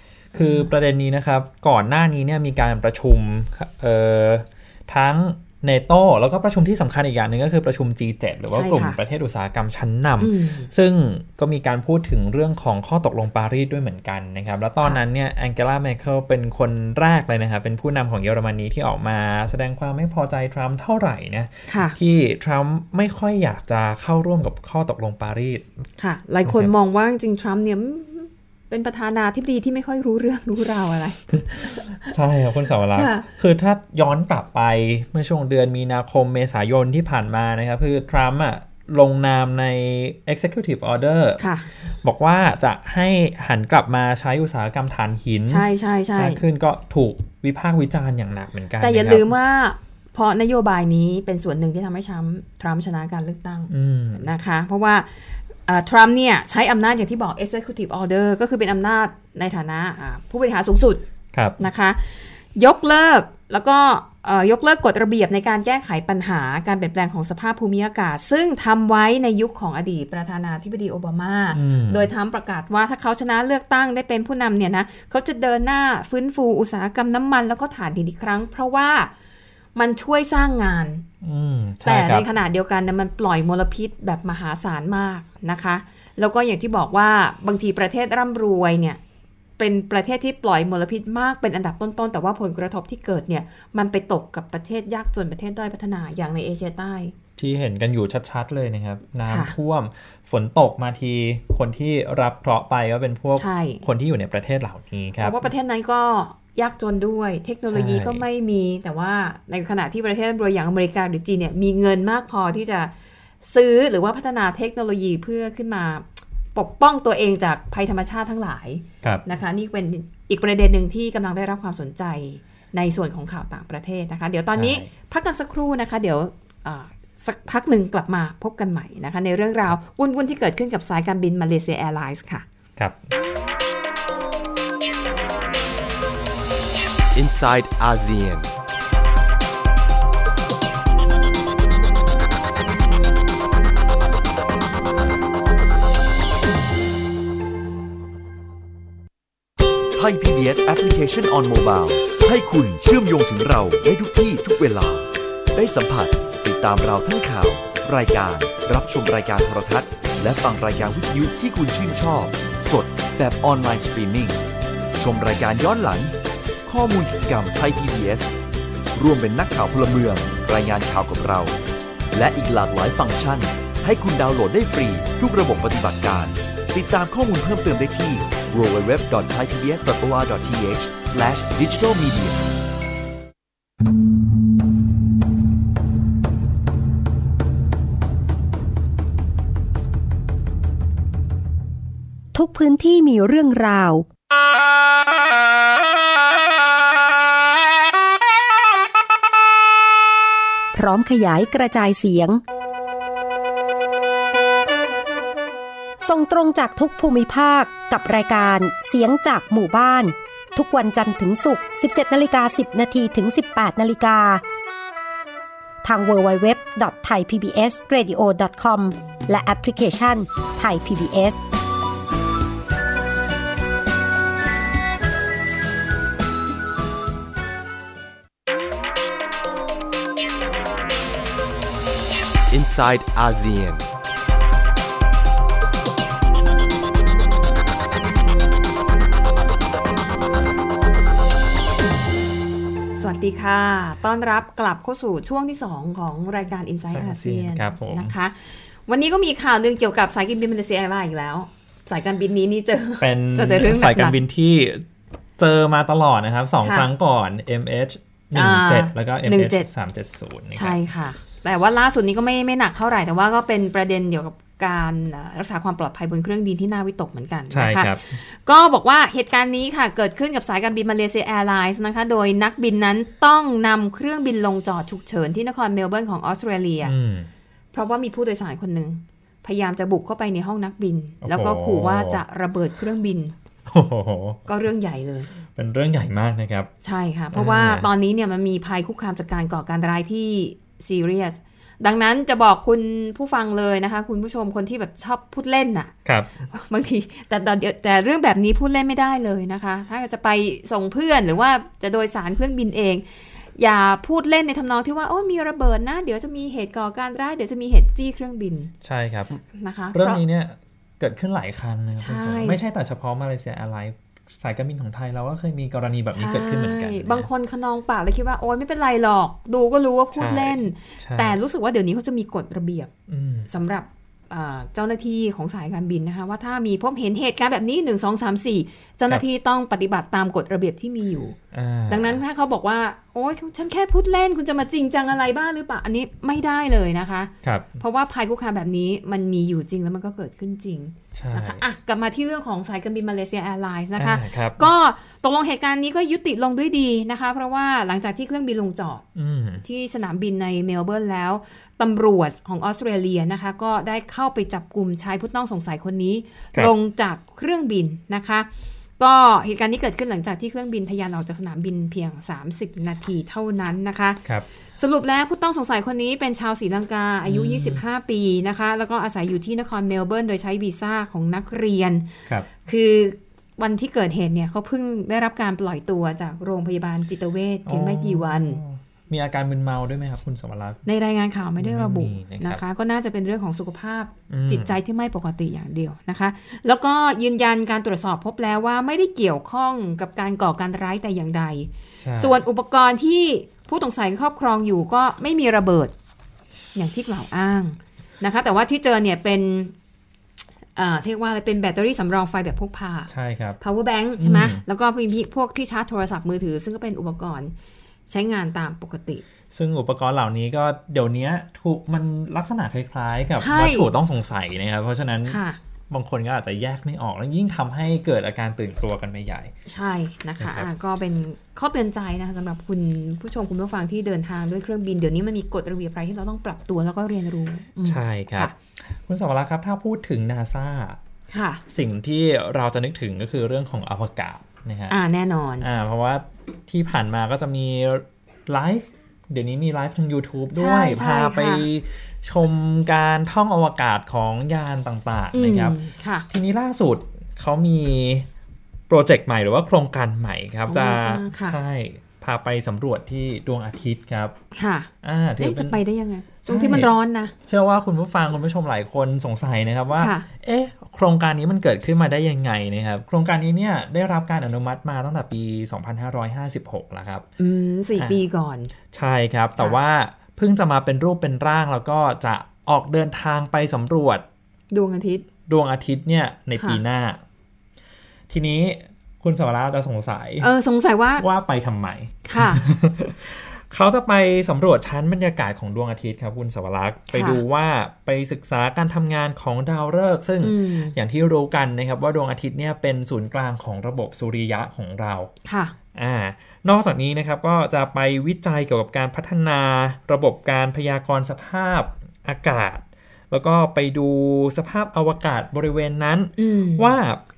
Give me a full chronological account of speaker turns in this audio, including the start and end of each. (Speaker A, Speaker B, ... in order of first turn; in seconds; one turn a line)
Speaker A: 0.3-0.7
Speaker B: 0.3-25.7
Speaker A: 8.5-9.0
Speaker A: 10.2-10.7
Speaker A: 21.7-22.0
Speaker A: 26.0-32.1
Speaker B: 26.4-26.7
Speaker B: 31.6-41.4
Speaker A: 32.9-33.3
Speaker A: 41.4-41.7
Speaker B: 41.9-49.3
Speaker A: 45.5-46.4
Speaker A: 48.8-61.0
Speaker B: 53.7-54.3
Speaker B: 61.3-61.6
Speaker A: 61.6-79.1
Speaker B: 71.5-72.1
Speaker A: 79.8-81.0
Speaker B: 81.2-82.3
Speaker A: 81.8-89.0
Speaker A: 89.6-97.1
Speaker B: 97.4-105.5
Speaker A: 99.2-99.5
Speaker A: 103.3-103.8
Speaker A: 105.2-112.9
Speaker B: 107.7-108.2
Speaker A: 113.4-132.4
Speaker B: 124.5-124.9
Speaker B: 132.8-133.1
Speaker C: 137.1-138.5
Speaker D: 149.9-164.4
Speaker D: 164.9-166.1
Speaker D: 166.6-168.3
Speaker D: 168.9-171.6
Speaker D: 172.1-182.4
Speaker E: 192.3-194.1
Speaker E: 200.7-202.4
Speaker E: 206.0-214.4
Speaker E: 215.8-221.4
Speaker C: 232.5-233.9
Speaker A: 242.9-254.2
Speaker B: 246.9-248.1
Speaker B: 253.0-254.8
Speaker B: 255.4-260.8
Speaker A: 256.6-256.9
Speaker A: 258.3-259.7
Speaker A: 260.5-276.9
Speaker B: 267.5-268.2
Speaker B: 276.8-277.3
Speaker A: 277.7-283.3
Speaker B: 281.2-282.2
Speaker B: 283.7-284.4
Speaker A: 284.5-285.3
Speaker B: 285.5-286.7
Speaker A: 286.8-295.9
Speaker B: 287.3-287.9
Speaker B: 296.0-296.4
Speaker A: 296.5-303.0
Speaker A: 303.6-308.7
Speaker B: 308.8-309.4
Speaker A: 309.4-310.2
Speaker B: 309.9-317.3
Speaker A: 312.0-312.6
Speaker A: 316.1-322.9
Speaker B: 320.1-321.4
Speaker B: 323.1-323.5
Speaker A: 323.5-331.4
Speaker B: 331.5-332.2
Speaker A: 331.9-349.0
Speaker B: 337.4-337.8
Speaker B: 341.1-341.6
Speaker B: 343.9-344.7
Speaker B: 349.1-349.6
Speaker A: 349.6-358.5
Speaker A: 359.0-364.2
Speaker A: 364.8-378.6
Speaker B: 367.2-367.8
Speaker B: 377.6-380.8
Speaker A: 380.9-395.9
Speaker B: 381.6-382.6
Speaker B: 384.3-384.8
Speaker B: 392.0-392.4
Speaker A: 396.7-399.7
Speaker A: 400.8-407.5
Speaker B: 403.1-403.6
Speaker B: 404.2-404.6
Speaker A: 408.1-409.2
Speaker B: 409.5-419.5
Speaker A: 413.4-413.9
Speaker A: 415.2-415.6
Speaker A: 419.6-428.5
Speaker B: 420.4-420.7
Speaker B: 427.8-431.0
Speaker A: 431.3-431.6
Speaker B: 431.7-435.0
Speaker A: 434.9-435.6
Speaker B: 435.6-448.3
Speaker A: 440.5-441.6
Speaker A: 445.3-446.3
Speaker B: 448.9-454.4
Speaker A: 450.7-451.6
Speaker A: 454.5-457.3
Speaker B: 455.0-455.8
Speaker B: 456.4-456.9
Speaker B: 457.4-467.3
Speaker A: 459.9-460.2
Speaker A: 467.4-468.7
Speaker B: 468.9-474.2
Speaker A: 474.7-475.2
Speaker B: 475.5-477.2
Speaker B: 478.3-480.5
Speaker A: 480.4-481.2
Speaker B: 481.2-495.3
Speaker A: 482.2-482.6
Speaker A: 487.1-487.4
Speaker A: 490.4-490.9
Speaker A: 495.4-495.7
Speaker B: 495.9-507.2
Speaker A: 506.4-506.9